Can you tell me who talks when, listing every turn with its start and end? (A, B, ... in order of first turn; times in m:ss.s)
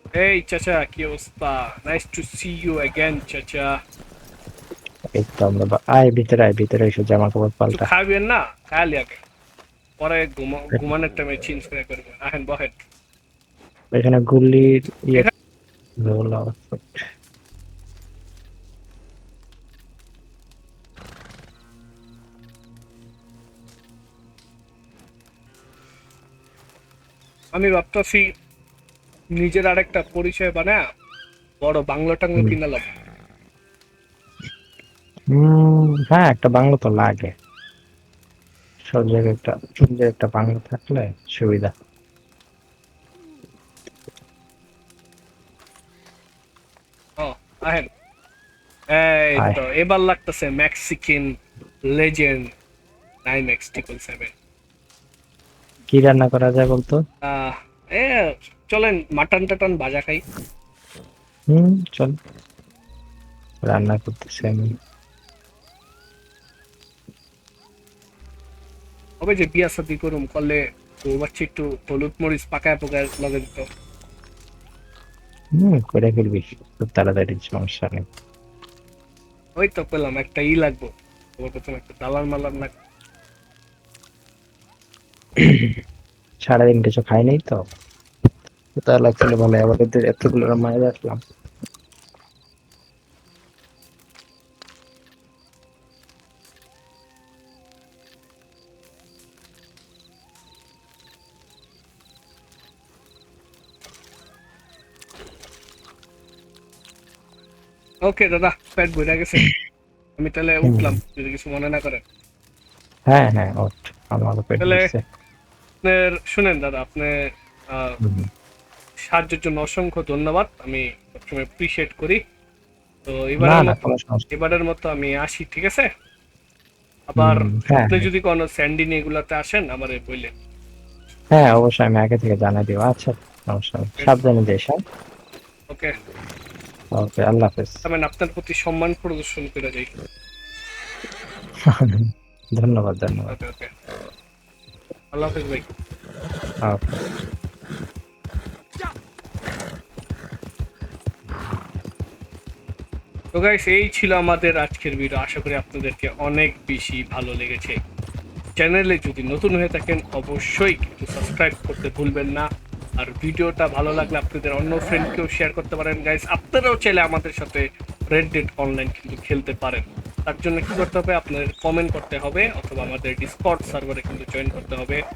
0:00.2-0:03.7 A
0:05.1-0:07.9 B
0:07.7-0:09.2 A
0:10.0-0:12.8 A
0:13.9-0:15.3 B
0:16.0-0:17.0 B
0:27.5-0:28.2 A
0:29.4-0:30.8 A
0:31.6-0:32.8 A
0:35.3-0:37.3 B
0:38.9-0:41.7 B
0:47.2-0:47.9 A
0:48.9-0:51.3 A
0:49.4-0:49.6 B
0:51.9-0:52.5 A
0:53.2-0:54.3 A
0:55.9-0:57.0 B
0:57.3-1:00.2 A
1:01.5-1:02.2 B
1:03.6-1:04.7 B
1:09.2-1:13.7 A
1:15.6-1:18.0 B
1:19.6-1:22.7 A
1:25.4-1:25.8 B
1:26.4-1:27.6 B
1:28.8-1:31.2 B
1:48.1-1:49.5 A
1:50.2-1:52.0 A
1:50.7-1:51.0 B
1:53.1-1:55.0 B
1:54.6-1:54.9 A
1:55.8-1:57.1 A
1:57.7-1:58.0 A
1:58.0-1:58.3 B
1:59.1-2:02.2 A
2:03.1-2:03.8 A
2:03.4-2:04.3 B
2:04.3-2:05.9 A
2:07.1-2:10.3 A
2:07.2-2:08.1 B
2:11.4-2:14.8 B
2:17.0-2:17.8 B
2:17.8-2:19.9 A
2:21.7-2:22.0 B
2:22.6-2:23.4 B
2:23.3-2:23.7 A
2:25.1-2:25.7 A
2:26.7-2:27.0 B
2:33.4-2:37.8 A
2:38.6-2:42.5 A
2:43.0-2:55.0 A